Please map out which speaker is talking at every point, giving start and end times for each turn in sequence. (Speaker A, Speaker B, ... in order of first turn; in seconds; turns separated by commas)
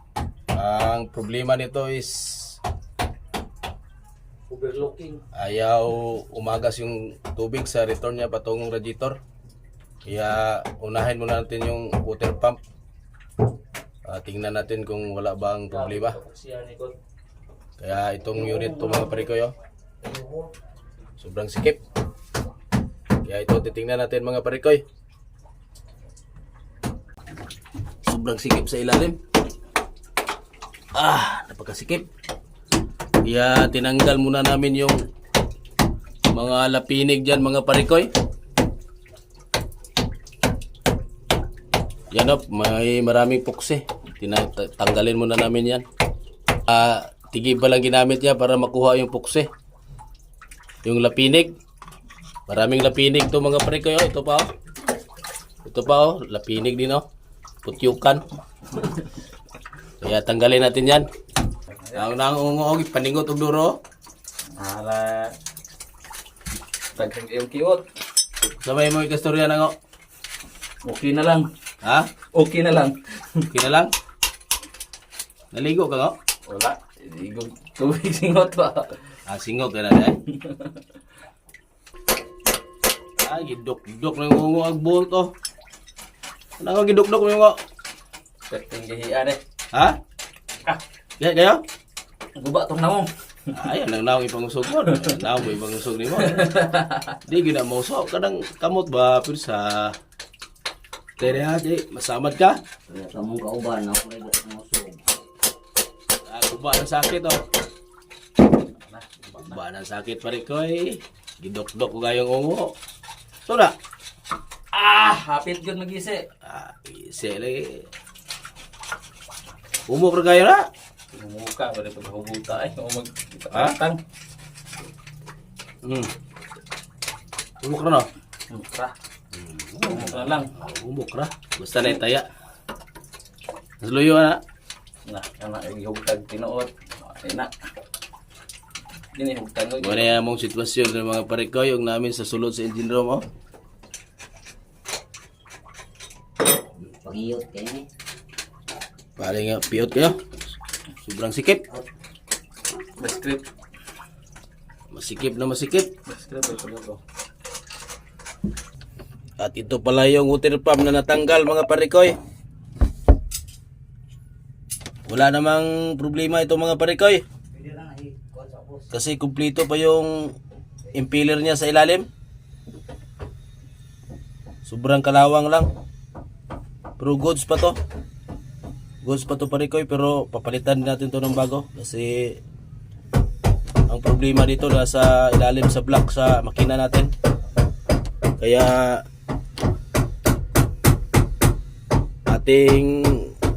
Speaker A: 0.5-2.6, Speaker B: 4.5-5.2, Speaker A: 5.3-9.2, Speaker A: 10.0-12.6, Speaker A: 14.0-16.2, Speaker B: 15.7-16.9, Speaker A: 17.8-19.5, Speaker B: 18.4-19.2, Speaker A: 21.2-21.8, Speaker A: 23.2-24.8, Speaker A: 28.1-29.2, Speaker A: 30.9-32.1, Speaker A: 33.2-35.0, Speaker A: 36.3-38.1, Speaker A: 42.1-45.8, Speaker A: 46.7-49.5, Speaker A: 50.8-51.5, Speaker A: 52.5-54.5, Speaker A: 55.6-57.0, Speaker A: 57.6-58.2, Speaker A: 60.0-61.1, Speaker B: 61.7-62.0, Speaker A: 61.9-63.8, Speaker B: 64.6-65.3, Speaker B: 67.0-67.9, Speaker A: 68.6-69.8, Speaker B: 70.8-71.5, Speaker A: 71.8-72.2, Speaker B: 72.3-73.5, Speaker A: 73.5-73.9, Speaker A: 75.5-76.2, Speaker B: 76.5-79.0, Speaker A: 79.3-80.2, Speaker B: 80.3-80.8, Speaker A: 83.2-85.3, Speaker A: 86.6-87.6, Speaker B: 88.5-89.4, Speaker A: 89.7-90.0, Speaker A: 91.2-91.6, Speaker B: 92.4-93.5, Speaker A: 93.5-96.5, Speaker B: 94.9-95.2, Speaker B: 96.2-97.2, Speaker A: 97.2-100.0, Speaker A: 101.2-102.6, Speaker C: 102.9-105.2, Speaker A: 106.2-107.5, Speaker B: 108.8-109.6, Speaker A: 109.4-112.8, Speaker A: 113.5-113.8, Speaker B: 114.7-116.3, Speaker A: 116.4-117.9, Speaker A: 119.9-120.7, Speaker B: 121.1-124.0, Speaker A: 123.5-123.8, Speaker A: 125.8-126.1, Speaker A: 127.6-128.1, Speaker B: 128.5-128.9, Speaker A: 129.3-132.3, Speaker B: 129.8-130.5, Speaker A: 133.8-134.4, Speaker B: 135.1-137.5, Speaker B: 139.1-140.1, Speaker A: 139.8-143.2, Speaker C: 146.8-147.9, Speaker A: 149.2-150.2, Speaker A: 151.0-151.6, Speaker B: 153.0-153.5, Speaker A: 154.9-155.9, Speaker B: 156.1-157.0, Speaker A: 159.4-162.2, Speaker A: 165.1-167.2, Speaker C: 167.5-168.9, Speaker A: 168.9-170.3, Speaker A: 170.9-172.1, Speaker A: 174.6-175.7, Speaker A: 177.0-177.8, Speaker A: 179.0-182.4, Speaker A: 183.9-187.1, Speaker A: 188.4-189.0, Speaker A: 192.2-193.3